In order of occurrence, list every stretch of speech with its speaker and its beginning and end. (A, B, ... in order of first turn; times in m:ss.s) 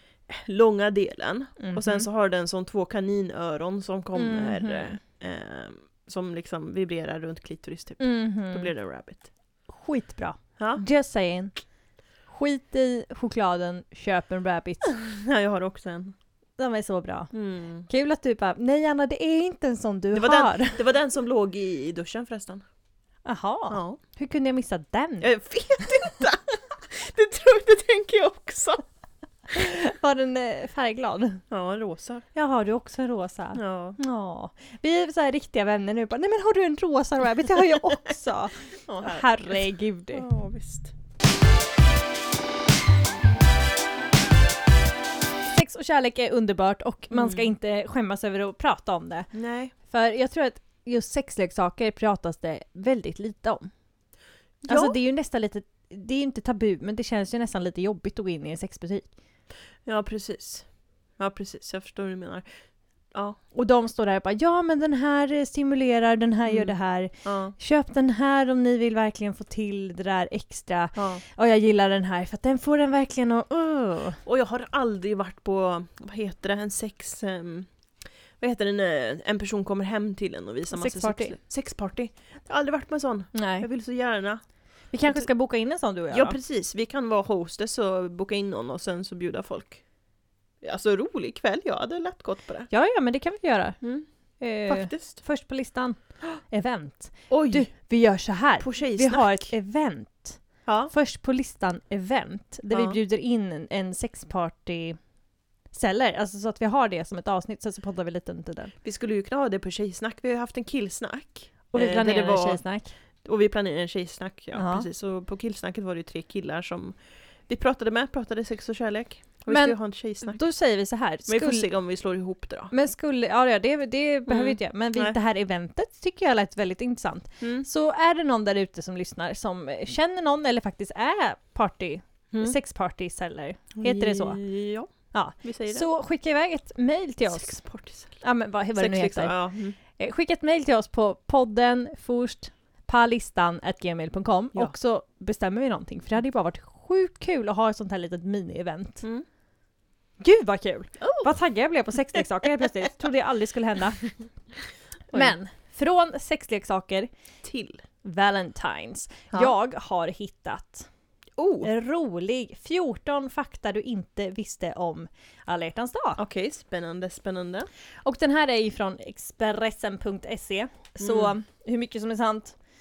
0:00.3-0:09.3 A
0:01.6-0:02.1 B
0:04.2-0:05.0 B
0:08.0-0:08.7 B
0:09.7-0:11.5 B
0:10.6-0:10.8 A
0:12.3-0:15.0 B
0:15.0-0:16.2 A
0:16.6-0:17.3 B
0:17.3-0:17.9 A
0:17.9-0:20.8 B
0:20.1-0:22.6 A
0:23.2-0:25.3 B
0:23.7-0:24.0 A
0:25.2-0:28.8 A
0:29.5-0:31.4 B
0:31.5-0:32.3 A
0:32.3-0:40.3 B
0:33.6-0:34.0 A
0:38.9-0:39.6 A
0:40.1-0:40.9 A
0:45.5-0:49.3 B
0:47.1-0:47.5 A
0:49.3-0:49.7 A
0:49.8-0:53.7 B
0:54.6-0:55.0 A
0:54.7-0:59.1 B
0:59.8-1:02.5 A
1:03.1-1:03.4 A
1:03.5-1:14.2 B
1:06.5-1:07.6 A
1:11.0-1:11.2 A
1:14.2-1:17.7 A
1:18.4-1:24.4 A
1:20.7-1:21.4 B
1:23.3-1:23.7 B
1:24.9-1:26.4 B
1:26.1-1:29.8 A
1:30.6-1:32.7 A
1:32.7-1:33.8 B
1:33.8-1:34.1 A
1:34.4-1:45.0 B
1:34.7-1:35.2 A
1:37.3-1:37.7 A
1:38.6-1:39.5 A
1:40.7-1:40.9 A
1:42.7-1:43.0 A
1:45.7-1:48.7 B
1:48.8-1:52.6 A
1:51.7-1:52.9 B
1:53.2-2:00.4 A
1:54.6-1:54.9 B
1:59.5-2:01.7 B
2:01.3-2:02.7 A
2:02.7-2:14.4 B
2:04.3-2:05.2 A
2:07.4-2:07.7 A
2:13.8-2:15.9 A
2:15.1-2:17.6 B
2:17.3-2:18.2 A
2:18.2-2:19.4 B
2:18.8-2:19.8 A
2:20.0-2:29.0 B
2:30.2-2:34.1 B
2:31.0-2:31.3 A
2:35.1-2:37.1 B
2:37.4-2:37.8 A
2:38.0-2:40.9 B
2:41.4-2:41.7 A
2:41.6-2:46.2 B
2:46.2-2:47.7 A
2:48.0-2:52.6 B
2:51.0-2:51.3 A